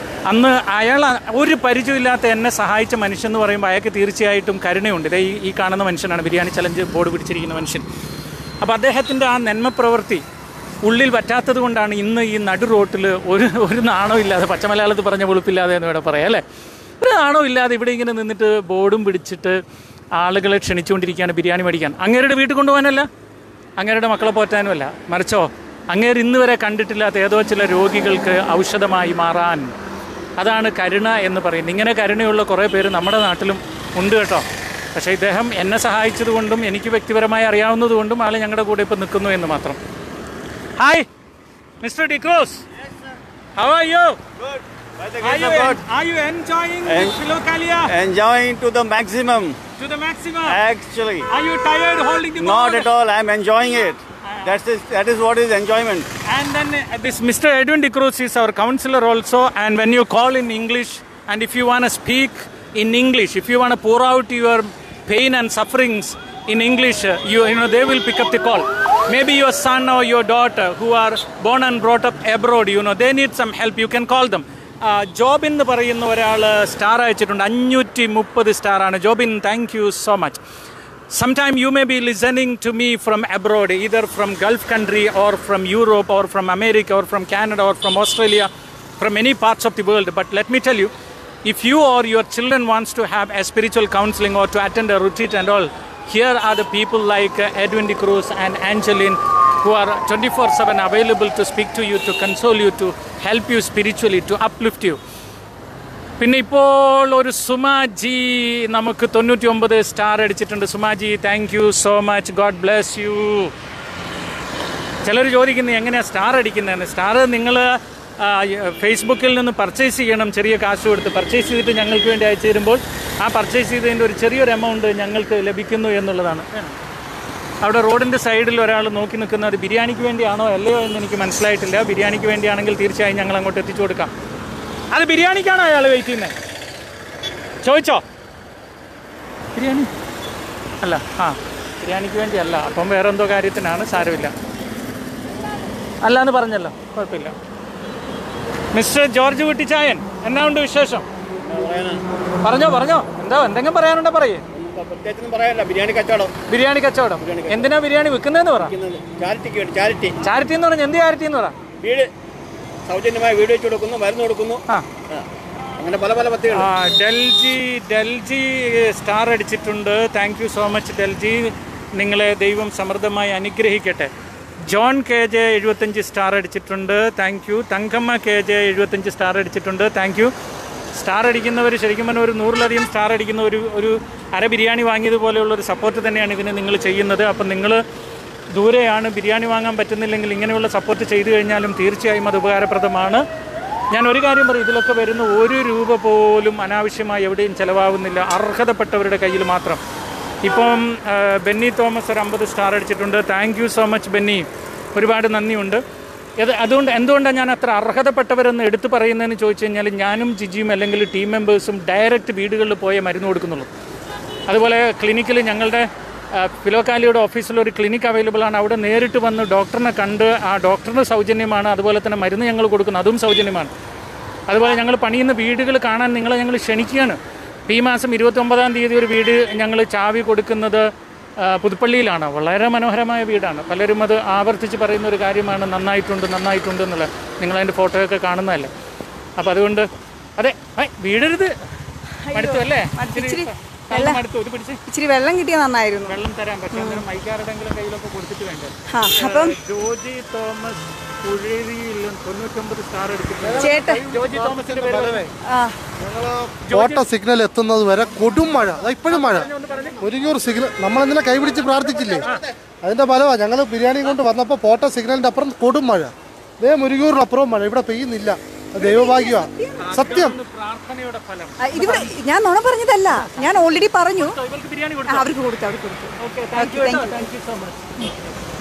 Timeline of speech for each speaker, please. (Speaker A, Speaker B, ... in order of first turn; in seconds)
Speaker A: 0.3-7.8, 8.6-10.2, 10.8-16.4, 17.0-19.6, 20.2-23.1, 23.8-29.7, 30.4-39.8, 40.8-41.1, 41.8-42.6, 43.6-44.2, 45.2-47.9, 49.8-50.6, 51.3-52.9, 56.3-80.4, 81.1-90.9, 91.5-105.0, 106.2-113.5, 115.0-126.7, 127.6-134.1, 134.9-136.3, 137.6-138.0, 139.6-139.9, 140.8-144.3, 146.0-147.3, 148.7-151.1, 152.4-154.4, 156.5-158.7, 160.2-161.6, 166.5-174.1, 174.7-180.3, 181.0-187.8, 188.5-193.2, 193.9-199.8, 200.4-205.8, 206.4-213.7, 214.5-223.7, 224.5-230.9, 231.4-238.7, 239.4-241.5, 242.3-244.8, 246.1-255.3, 256.7-257.1, 259.1-260.0, 269.8-272.1, 273.3-273.6, 274.2-275.3, 276.2-277.9
Speaker B: 45.0-45.8, 46.9-47.1, 47.9-49.6, 50.5-51.3, 52.4-56.1, 151.4-152.0, 154.5-156.3, 157.2-157.7, 158.7-160.2, 161.8-162.1, 162.9-164.6, 165.8-166.7
Speaker C: 242.3-244.2, 244.9-246.2, 246.7-247.0, 248.9-249.6, 253.6-254.0, 255.5-255.8, 268.8-269.9, 271.6-274.4, 275.1-277.2
Speaker D: 253.4-255.3, 256.0-262.3, 262.8-270.4